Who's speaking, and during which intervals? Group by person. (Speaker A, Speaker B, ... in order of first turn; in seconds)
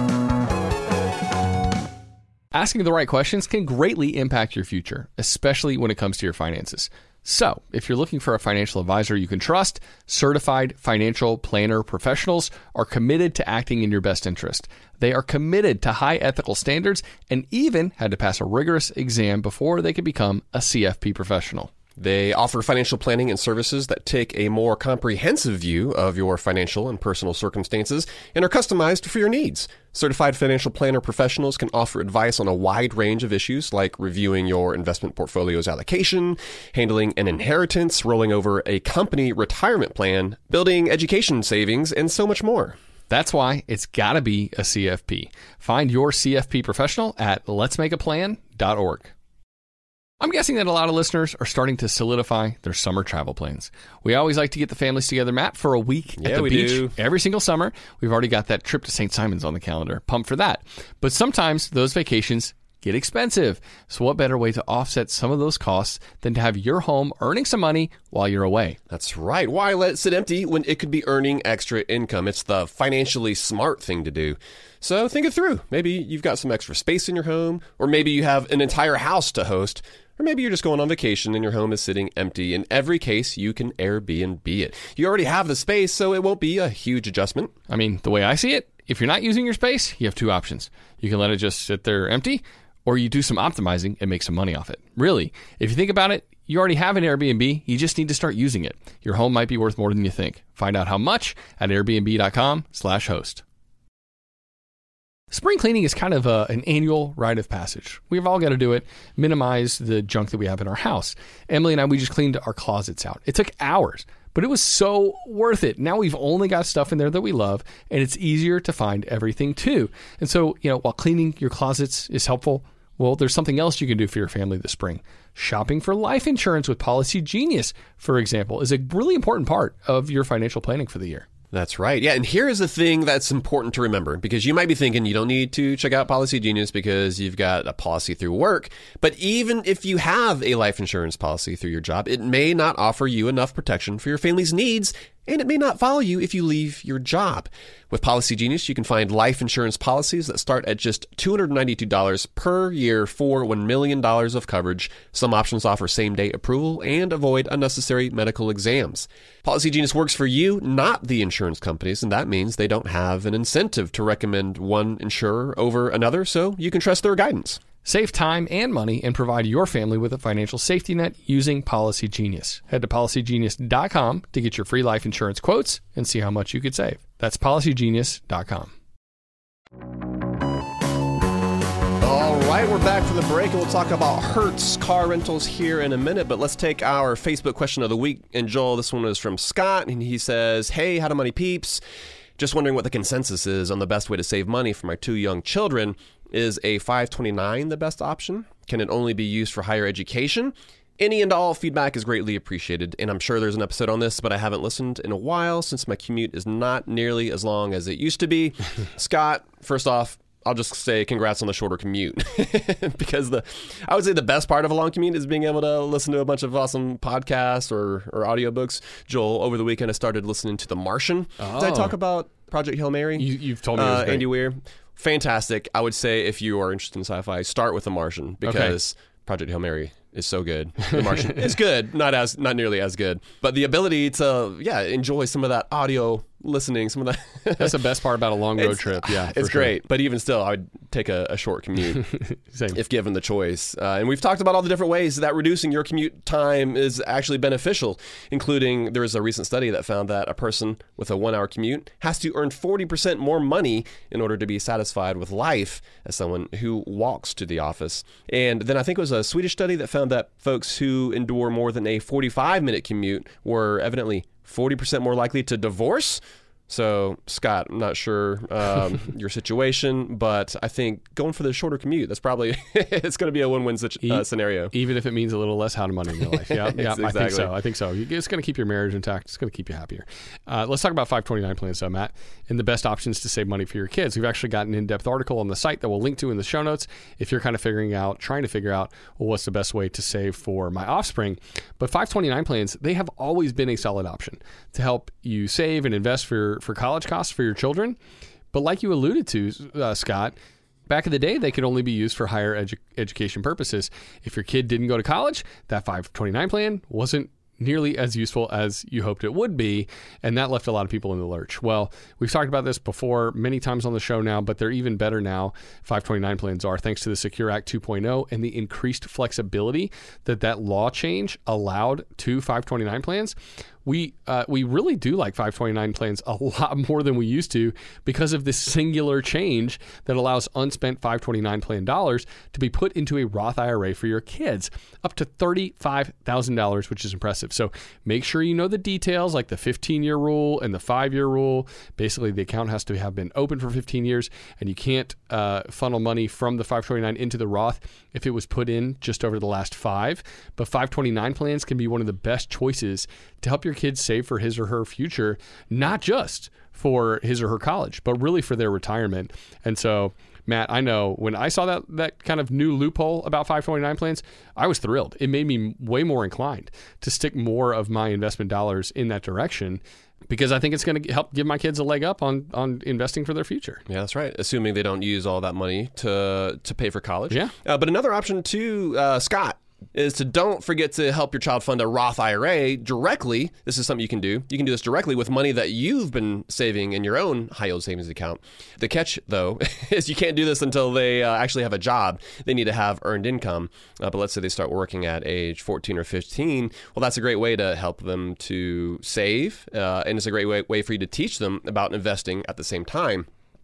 Speaker A: 2.5-21.7, 43.1-49.1, 50.2-68.8, 87.7-103.4, 105.3-131.3, 167.8-178.7, 221.4-221.9, 223.2-224.3, 228.4-228.7, 230.9-231.5, 237.6-239.8, 242.0-242.8, 274.0-298.0, 298.5-300.3, 300.9-373.8
Speaker B: 22.0-42.8, 56.2-56.9, 68.9-87.5, 131.5-167.6, 182.0-191.8, 192.4-237.7, 238.6-242.1, 242.7-274.7, 276.2-277.5, 373.9-403.3